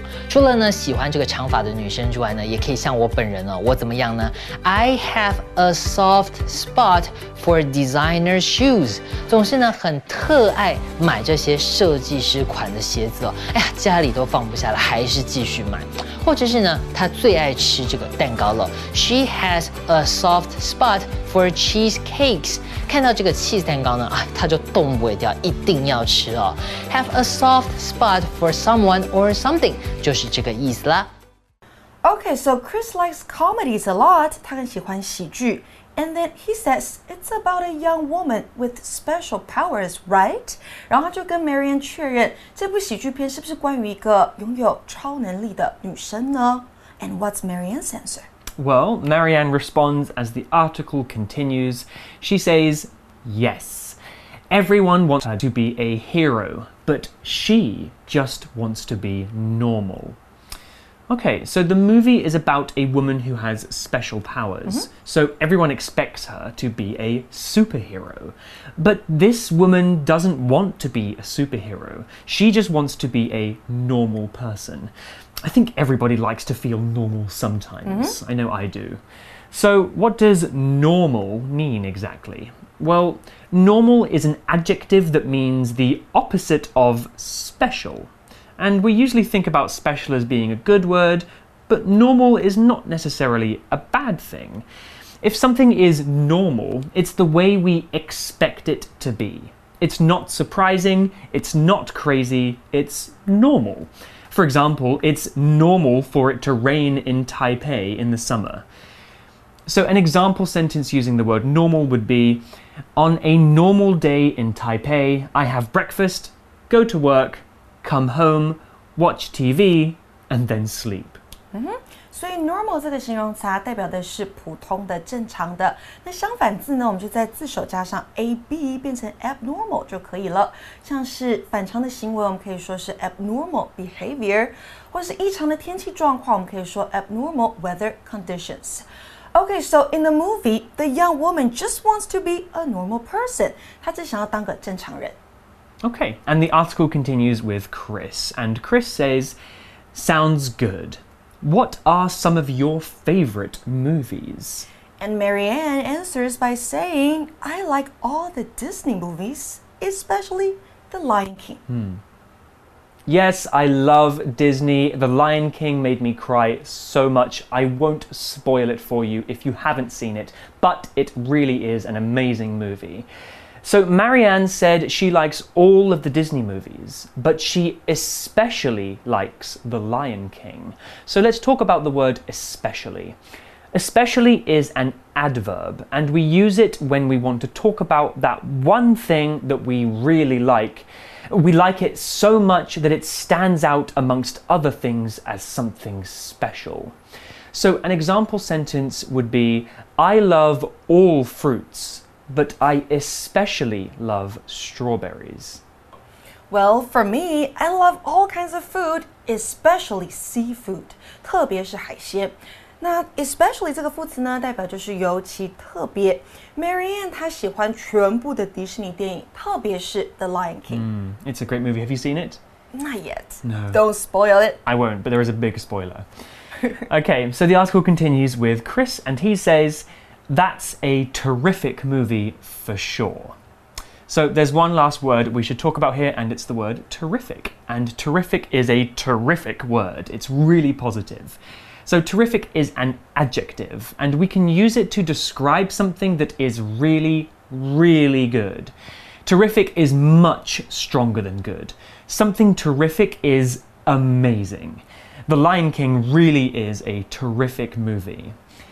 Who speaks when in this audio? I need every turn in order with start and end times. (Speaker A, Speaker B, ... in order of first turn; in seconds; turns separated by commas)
Speaker A: 0.3-31.1, Speaker B: 32.0-48.3, Speaker C: 48.6-54.0, Speaker C: 54.5-60.2, Speaker C: 61.1-74.9, Speaker C: 75.4-94.7, Speaker B: 77.8-78.2, Speaker C: 95.2-108.7, Speaker C: 109.7-112.4, Speaker C: 113.0-121.2, Speaker B: 121.5-145.2, Speaker C: 145.8-149.4, Speaker C: 149.9-154.7, Speaker B: 155.0-161.6, Speaker C: 161.7-162.0, Speaker C: 163.1-173.1, Speaker C: 173.6-183.2, Speaker C: 183.7-197.0, Speaker C: 197.5-205.6, Speaker B: 206.5-220.9, Speaker C: 220.7-222.4, Speaker B: 222.7-224.6, Speaker C: 223.4-223.8, Speaker C: 224.7-226.1, Speaker C: 226.9-233.4, Speaker C: 234.1-248.7, Speaker C: 249.2-258.4